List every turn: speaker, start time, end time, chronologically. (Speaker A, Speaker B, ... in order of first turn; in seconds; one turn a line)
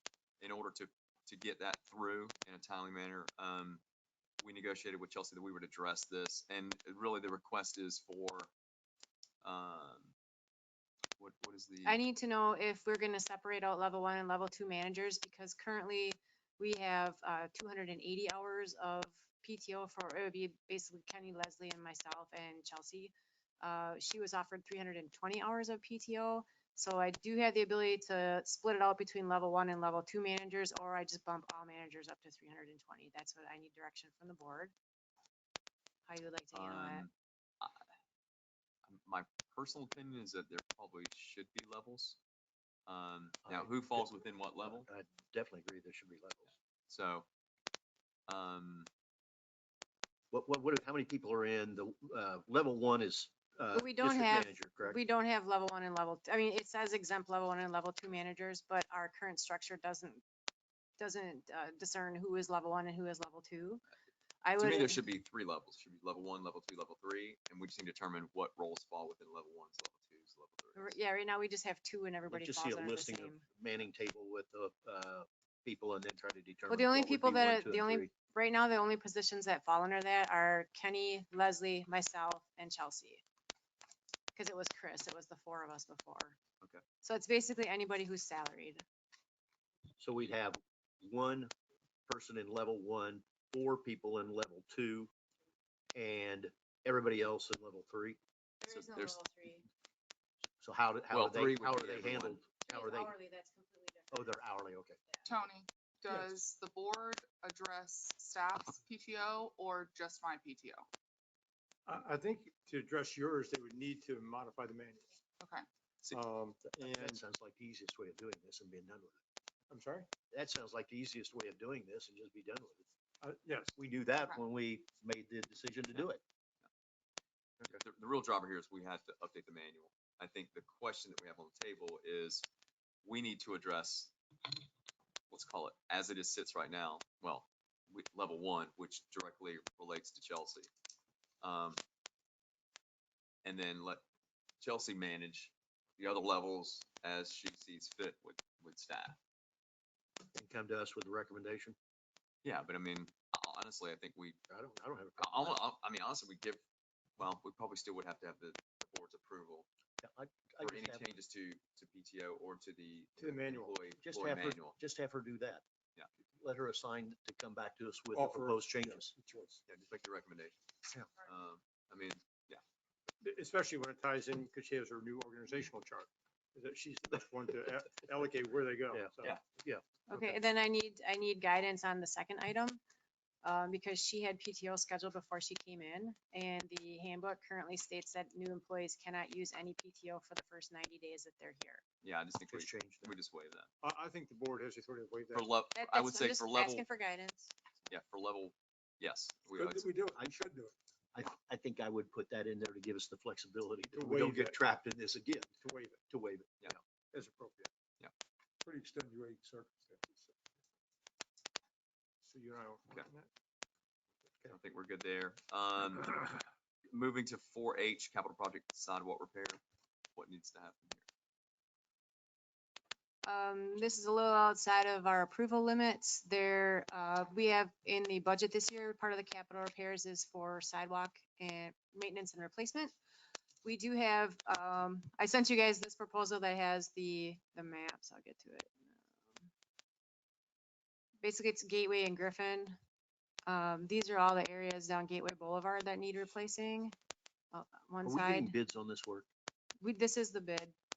Speaker A: 0.4-3.8
Speaker A: 4.4-8.5
Speaker A: 9.4-10.1
Speaker A: 11.2-12.0
Speaker B: 11.8-34.7
Speaker B: 36.0-37.1
Speaker A: 36.5-37.8
Speaker A: 38.8-42.2
Speaker A: 42.9-44.9
Speaker C: 43.5-46.5
Speaker A: 46.9-47.3
Speaker A: 48.3-48.9
Speaker C: 50.3-55.0
Speaker B: 53.7-60.2
Speaker B: 61.0-63.8
Speaker B: 64.4-65.0
Speaker A: 64.6-71.0
Speaker B: 70.7-73.4
Speaker C: 72.3-78.1
Speaker B: 76.7-83.2
Speaker B: 84.3-86.4
Speaker B: 87.0-88.8
Speaker C: 90.0-91.5
Speaker C: 92.1-95.1
Speaker C: 95.9-98.2
Speaker B: 98.6-99.7
Speaker A: 98.7-99.2
Speaker C: 100.6-103.2
Speaker A: 101.1-102.4
Speaker B: 102.7-104.5
Speaker C: 104.1-105.0
Speaker B: 105.1-105.3
Speaker D: 105.2-110.8
Speaker E: 111.8-115.1
Speaker E: 116.1-117.2
Speaker C: 116.7-119.2
Speaker E: 119.7-120.1
Speaker C: 120.3-122.8
Speaker E: 123.2-123.7
Speaker C: 123.7-126.2
Speaker A: 127.7-132.5
Speaker A: 133.0-134.1
Speaker A: 135.3-140.7
Speaker A: 141.4-141.8
Speaker A: 143.4-144.0
Speaker A: 144.6-149.2
Speaker C: 150.3-151.8
Speaker A: 152.4-154.4
Speaker C: 154.5-155.6
Speaker A: 155.2-156.6
Speaker A: 157.2-159.7
Speaker C: 160.0-161.1
Speaker A: 160.6-164.8
Speaker E: 163.2-163.7
Speaker C: 164.0-165.6
Speaker C: 166.4-169.1
Speaker E: 168.1-169.6
Speaker A: 169.7-170.6
Speaker A: 171.2-172.6
Speaker E: 173.2-179.3
Speaker C: 178.9-180.3
Speaker B: 180.1-182.8
Speaker B: 183.4-191.8
Speaker A: 192.0-193.7
Speaker C: 192.5-193.1
Speaker E: 193.8-195.5
Speaker A: 195.3-196.8
Speaker B: 195.7-197.5
Speaker A: 197.9-199.9
Speaker E: 199.5-200.7
Speaker C: 201.1-205.5
Speaker E: 203.9-204.6
Speaker E: 205.6-206.0
Speaker C: 206.1-206.8
Speaker E: 207.1-207.7
Speaker E: 208.6-210.3
Speaker E: 212.2-213.3
Speaker A: 214.4-219.6
Speaker A: 220.2-221.0
Speaker B: 223.2-232.9
Speaker B: 233.6-239.5
Speaker B: 241.2-242.8
Speaker B: 243.4-246.9
Speaker B: 247.5-248.5
Speaker C: 248.0-249.3
Speaker B: 249.8-250.7